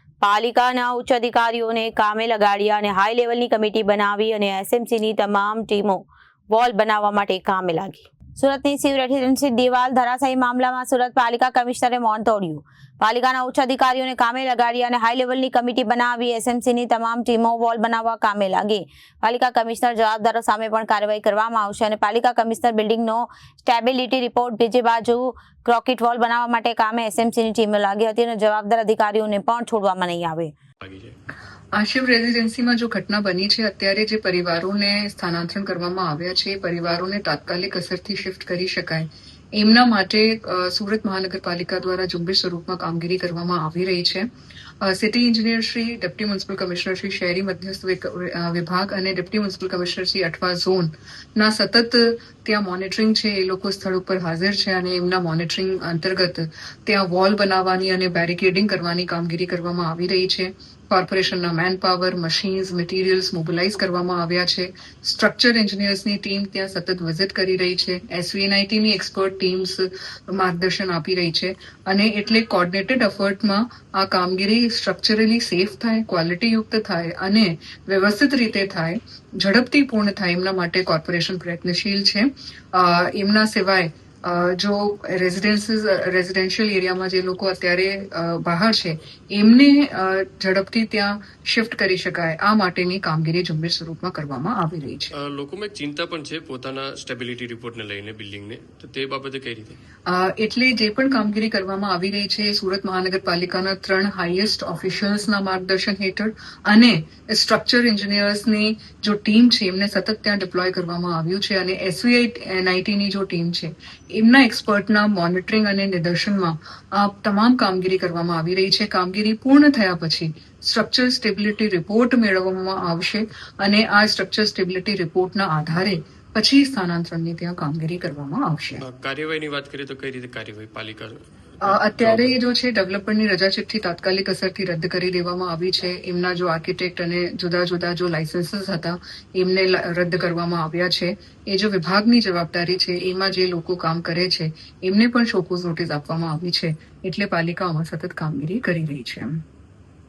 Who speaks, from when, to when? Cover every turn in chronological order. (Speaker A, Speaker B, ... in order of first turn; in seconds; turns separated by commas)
Speaker A: 0.2-30.5, Speaker B: 30.8-31.1, Speaker C: 31.7-44.3, Speaker C: 44.8-95.1, Speaker B: 95.2-99.8, Speaker C: 100.1-128.8, Speaker B: 128.8-132.3, Speaker C: 131.6-149.4